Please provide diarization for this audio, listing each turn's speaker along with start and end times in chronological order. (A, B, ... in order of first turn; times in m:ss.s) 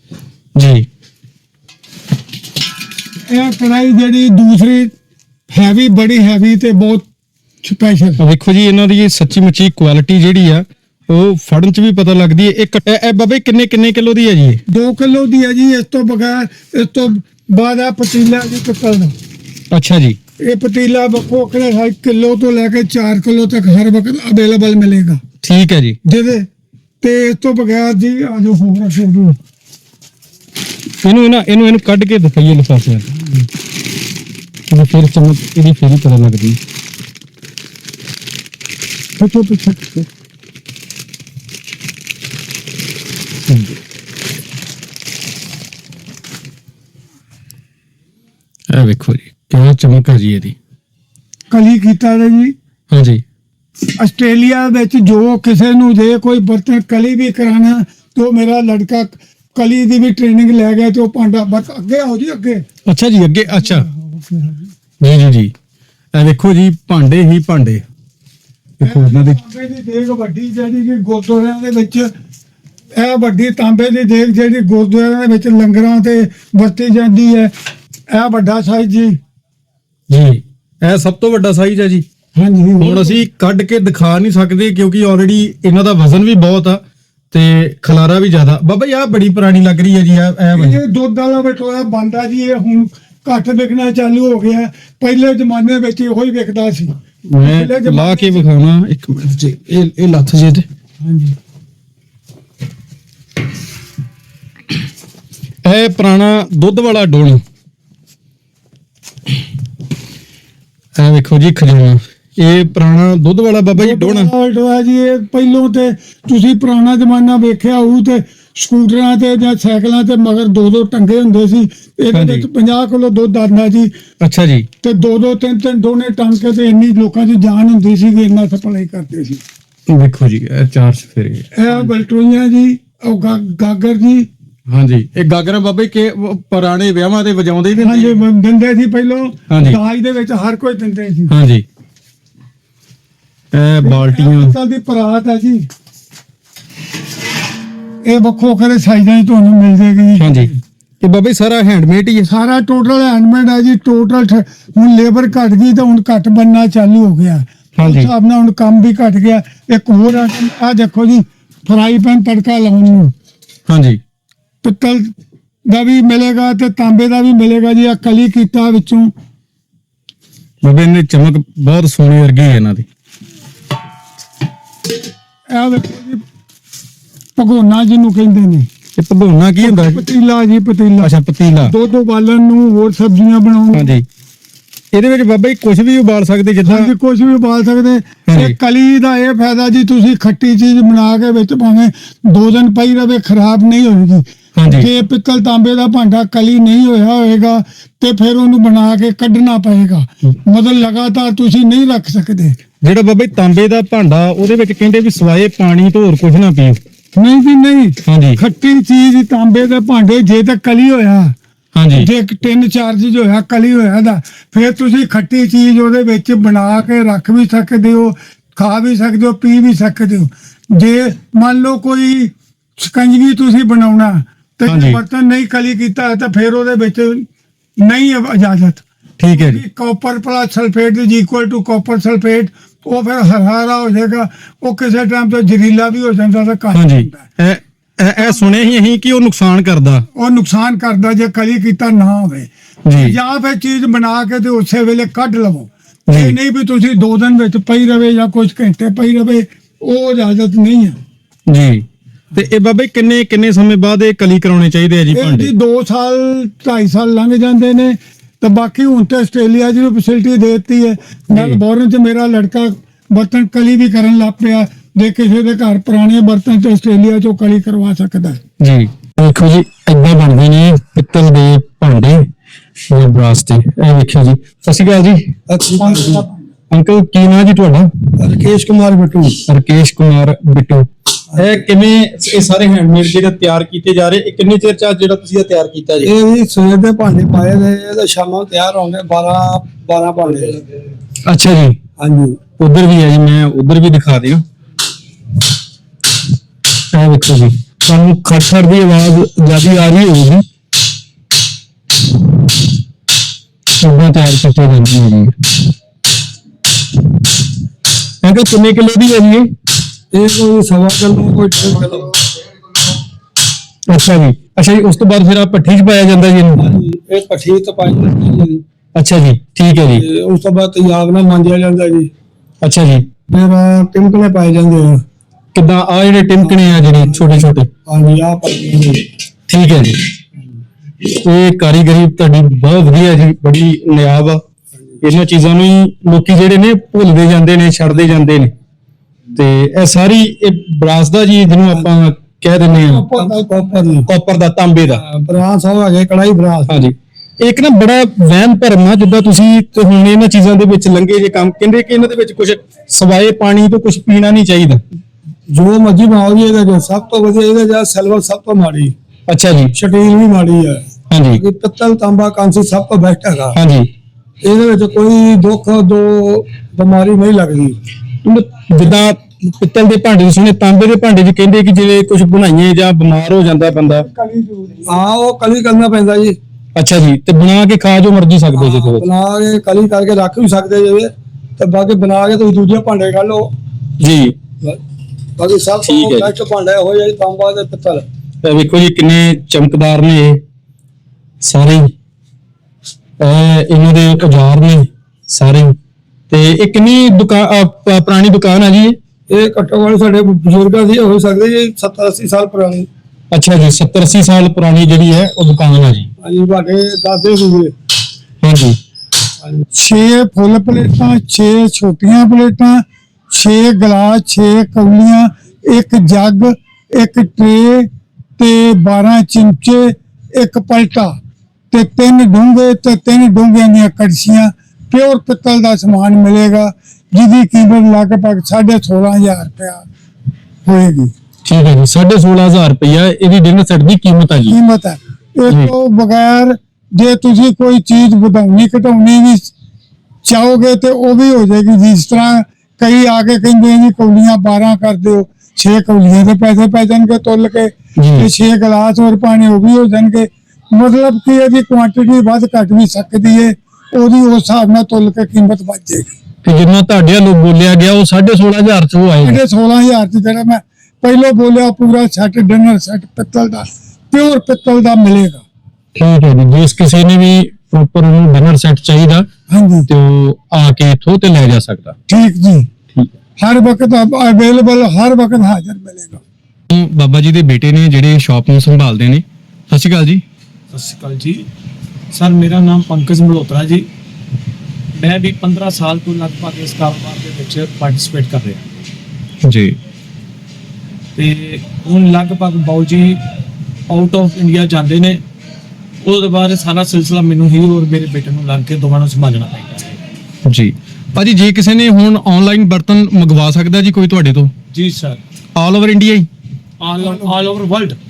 0:00.6-0:00.9 A
0:03.3-0:04.9 B
0:05.5-0:07.1 B
0:07.6-0:08.2 B
0:08.2-0:14.6 A
0:14.7-0:19.1 B
0:19.7-0:20.2 A
0:20.4-0:25.2 B
0:25.4-0:26.0 A
0:26.0-0:26.5 B
0:27.0-0:29.4 B
0:31.0-0:33.1 A
0:34.7-0:36.6 A
0:39.2-0:40.1 B
0:43.5-0:43.8 A
0:48.7-0:50.6 A
0:51.5-0:52.5 B
0:52.9-0:53.2 A
0:54.0-1:02.6 B
1:02.9-1:03.9 A
1:03.5-1:04.7 B
1:05.0-1:05.5 A
1:06.1-1:07.8 A
1:08.8-1:09.4 A
1:08.8-1:12.1 B
1:13.0-1:17.5 B
1:18.1-1:19.2 B
1:20.1-1:22.0 A
1:22.4-1:23.2 B
1:22.8-1:30.8 A
1:30.5-1:38.5 B
1:37.3-1:40.7 A
1:41.0-1:41.4 B
1:45.6-1:47.4 A
1:51.0-1:54.3 A
1:53.8-2:04.0 B
2:02.1-2:02.5 A
2:04.2-2:04.7 A
2:04.8-2:09.4 B
2:09.9-2:11.9 A
2:11.5-2:14.3 B
2:14.7-2:18.2 A
2:17.8-2:21.3 B
2:19.5-2:19.8 A
2:21.3-2:21.6 A
2:23.5-2:24.6 A
2:23.8-2:25.7 B
2:28.0-2:30.6 B
2:30.2-2:32.3 A
2:32.3-2:43.1 B
2:37.8-2:38.1 A
2:43.7-2:44.0 A
2:44.6-2:45.1 B
2:45.7-2:49.1 B
2:50.6-2:52.9 A
2:55.5-2:56.2 B
2:57.4-2:58.7 B
2:59.0-3:00.1 A
2:59.6-3:01.1 B
3:01.0-3:01.7 A
3:01.6-3:04.0 B
3:03.7-3:04.0 A
3:04.9-3:06.9 A
3:06.6-3:22.6 B
3:08.3-3:08.6 A
3:14.6-3:14.9 A
3:22.8-3:26.8 A
3:27.2-3:31.4 B
3:28.1-3:28.4 A
3:31.8-3:32.1 A
3:31.9-3:47.3 B
3:44.7-3:45.0 A
3:47.8-3:57.3 B
3:49.2-3:49.6 A
3:56.7-4:00.1 A
3:58.2-3:58.7 B
4:00.2-4:11.0 B
4:02.9-4:03.2 A
4:06.1-4:06.4 A
4:11.5-4:15.5 A
4:15.1-4:28.4 B
4:21.3-4:21.6 A
4:28.6-4:32.2 A
4:32.9-4:35.3 A
4:35.5-4:36.2 C
4:35.8-4:36.4 B
4:36.7-4:37.9 A
4:38.2-4:39.4 C
4:39.4-4:46.1 A
4:41.3-4:41.6 C
4:46.0-4:50.6 C
4:51.3-4:51.8 A
4:52.0-4:52.4 C
4:52.6-4:54.4 A
4:56.9-5:00.4 A
5:03.8-5:05.3 A
5:08.2-5:09.5 A
5:10.1-5:12.2 C
5:13.9-5:16.6 A
5:16.6-5:18.6 C
5:19.0-5:20.0 A
5:20.0-5:22.1 C
5:22.6-5:23.0 A
5:23.3-5:25.0 C
5:25.5-5:27.7 A
5:26.4-5:29.0 C
5:29.5-5:30.0 A
5:31.0-5:34.4 A
5:35.0-5:38.5 A
5:39.3-5:43.1 A
5:42.9-5:44.1 C
5:43.2-5:43.4 B
5:44.1-5:45.0 A
5:44.9-5:46.8 C
5:46.7-5:54.8 A
5:55.5-5:58.9 C
5:59.3-5:59.7 A
5:59.8-6:03.6 C
6:01.1-6:01.4 A
6:03.5-6:03.9 A
6:04.4-6:07.8 C
6:08.2-6:14.1 A
6:13.5-6:15.0 B
6:14.9-6:16.4 C
6:16.8-6:19.1 A
6:18.5-6:23.5 C
6:24.0-6:24.4 A
6:25.4-6:28.0 C
6:25.9-6:26.3 A
6:28.4-6:30.4 A
6:31.4-6:31.9 A
6:33.2-6:35.8 A
6:36.3-6:39.0 A
6:39.3-6:42.9 C
6:43.3-6:46.1 A
6:46.2-6:47.7 C
6:48.4-6:48.8 A
6:49.7-7:01.2 B
7:01.7-7:09.9 B
7:10.6-7:11.1 B
7:11.4-7:14.6 A
7:14.5-7:19.5 B
7:15.5-7:15.7 A
7:20.2-7:36.2 B
7:28.0-7:28.3 A
7:36.4-7:39.4 A
7:39.2-7:45.4 B
7:46.0-7:49.3 A
7:49.5-7:49.9 B
7:49.9-7:52.0 A
7:52.1-7:52.7 B
7:53.4-7:56.2 B
7:56.7-8:00.2 A
8:00.7-8:01.5 D
8:02.1-8:03.9 D
8:05.0-8:08.8 D
8:09.4-8:09.8 A
8:11.2-8:13.2 D
8:13.9-8:15.2 D
8:16.0-8:20.0 D
8:20.5-8:24.5 A
8:24.7-8:25.2 D
8:25.6-8:26.3 A
8:26.8-8:28.0 D
8:27.0-8:27.4 B